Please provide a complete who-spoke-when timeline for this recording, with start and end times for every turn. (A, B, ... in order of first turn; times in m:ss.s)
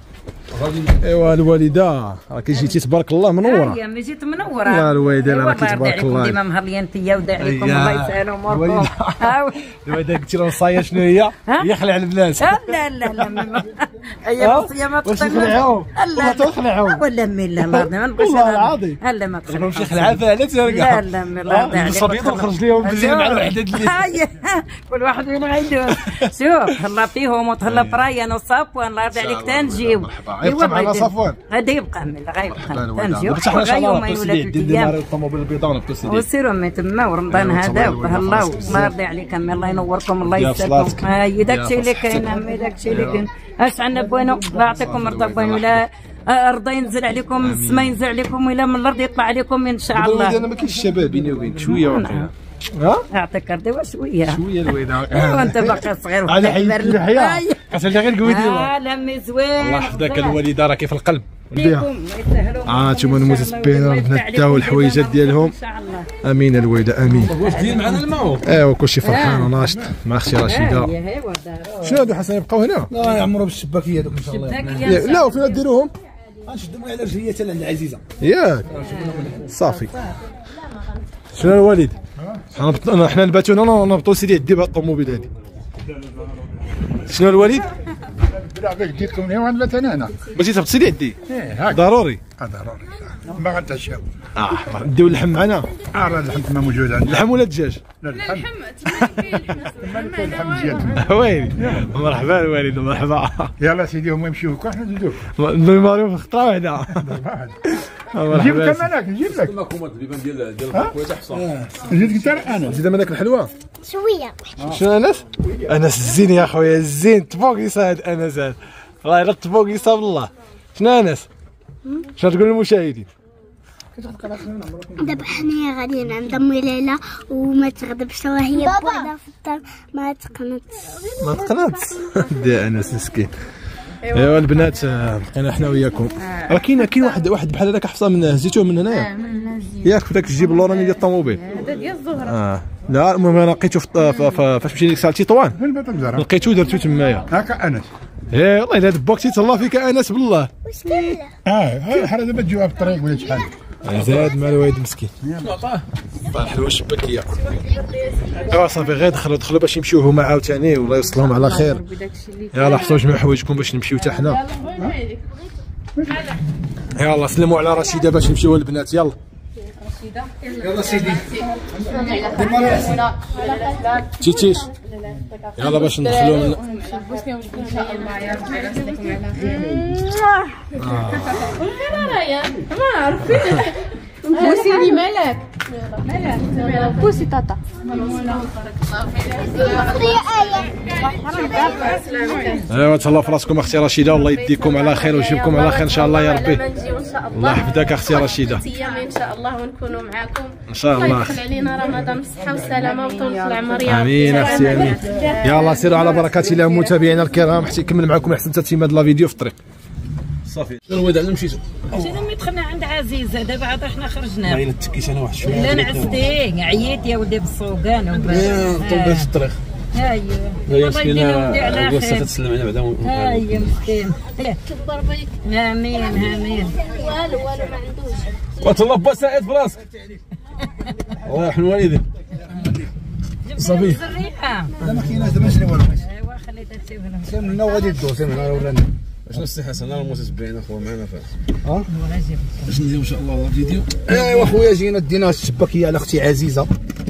0:00.5-0:01.0 A
0:01.0-0:03.8 B
0:03.4-0:09.6 C
0:04.6-0:06.4 B
0:07.4-0:09.3 B
0:09.8-0:13.6 B
0:12.4-0:35.0 C
0:14.4-0:17.0 B
0:17.6-0:24.2 B
0:25.9-0:26.3 B
0:27.6-0:28.0 B
0:29.1-0:31.4 B
0:32.5-0:36.2 B
0:36.0-0:50.4 C
0:37.3-0:38.9 B
0:40.2-0:43.3 B
0:44.2-0:45.8 B
0:47.4-0:48.0 B
0:49.9-0:53.0 B
0:51.6-0:52.3 C
0:53.1-0:54.4 C
0:54.3-0:58.7 B
0:55.1-0:57.6 C
0:58.2-1:00.4 C
0:59.6-1:01.8 B
1:01.5-1:06.1 C
1:02.6-1:05.5 B
1:06.2-1:07.4 B
1:07.1-1:08.0 C
1:07.2-1:08.6 A
1:08.4-1:10.9 B
1:09.0-1:09.5 C
1:10.4-1:11.8 C
1:11.8-1:12.9 B
1:12.9-1:15.1 D
1:14.2-1:15.6 C
1:14.8-1:15.9 B
1:16.4-1:18.0 D
1:18.2-1:18.8 B
1:18.8-1:19.3 C
1:19.4-1:19.9 B
1:21.3-1:21.9 B
1:22.5-1:25.3 B
1:27.0-1:27.7 B
1:28.3-1:30.2 E
1:30.3-1:31.2 B
1:31.3-1:34.0 E
1:31.7-1:32.2 B
1:34.4-1:35.7 B
1:35.9-1:37.2 E
1:37.0-1:37.8 B
1:38.0-1:38.5 E
1:38.1-1:41.0 F
1:38.8-1:39.3 B
1:39.6-1:41.0 E
1:40.9-1:43.5 B
1:43.6-1:45.2 E
1:45.4-1:47.0 B
1:47.0-1:47.5 E
1:47.7-1:48.9 B
1:48.3-1:49.5 E
1:49.2-1:51.6 A
1:51.8-1:52.8 E
1:52.6-1:53.5 B
1:53.8-1:54.4 G
1:54.6-1:54.8 E
1:54.6-2:01.3 B
2:02.2-2:03.1 B
2:05.0-2:11.1 G
2:11.2-2:13.3 B
2:14.1-2:19.1 B
2:14.1-2:14.4 F
2:16.5-2:17.1 F
2:18.9-2:19.8 F
2:19.8-2:21.4 B
2:20.6-2:22.4 F
2:22.2-2:25.6 B
2:24.0-2:24.4 F
2:25.5-2:26.3 E
2:26.2-2:27.2 B
2:27.3-2:27.9 E
2:28.3-2:30.5 B
2:30.6-2:31.3 G
2:31.4-2:34.3 E
2:33.8-2:35.1 B
2:35.2-2:35.5 E
2:35.4-2:35.8 A
2:36.3-2:37.3 B
2:38.4-2:38.6 F
2:38.5-2:41.8 B
2:41.2-2:43.0 F
2:42.5-2:44.4 B
2:44.2-2:44.9 F
2:47.0-2:49.2 B
2:49.8-2:51.2 F
2:50.6-2:53.1 D
2:51.9-2:54.6 F
2:54.2-2:54.7 B
2:55.6-2:56.6 B
2:55.6-2:59.6 F
2:56.9-2:57.8 H
2:57.6-2:59.1 I
2:59.5-2:59.9 E
3:00.8-3:01.4 B
3:01.6-3:03.7 I
3:04.3-3:05.1 I
3:04.4-3:05.3 F
3:04.5-3:05.1 H
3:05.7-3:07.2 I
3:06.1-3:07.4 F
3:07.1-3:07.6 H
3:07.8-3:09.3 I
3:07.9-3:08.4 F
3:09.2-3:10.4 F
3:09.6-3:12.0 G
3:11.0-3:12.6 F
3:11.8-3:12.6 I
3:12.7-3:16.6 B
3:14.2-3:25.2 I
3:17.3-3:18.7 B
3:20.7-3:21.4 B
3:21.9-3:22.8 E
3:22.8-3:27.4 F
3:23.8-3:29.6 B
3:30.4-3:32.3 A
3:31.9-3:34.7 C
3:34.4-3:36.2 A
3:35.4-3:39.3 C
3:38.1-3:39.6 A
3:39.9-3:42.3 C
3:40.7-3:43.9 A
3:43.0-3:44.6 C
3:44.7-3:45.3 I
3:45.4-3:46.8 C
3:46.5-3:48.4 I
3:48.6-3:49.9 A
3:51.2-3:52.0 A
3:53.5-3:54.7 C
3:53.6-3:54.0 A
3:54.8-3:56.0 D
3:54.8-3:55.1 A
3:56.0-3:58.2 C
3:57.2-3:59.4 D
3:59.2-4:01.4 A
4:01.9-4:02.7 C
4:02.6-4:04.6 A
4:04.1-4:06.7 D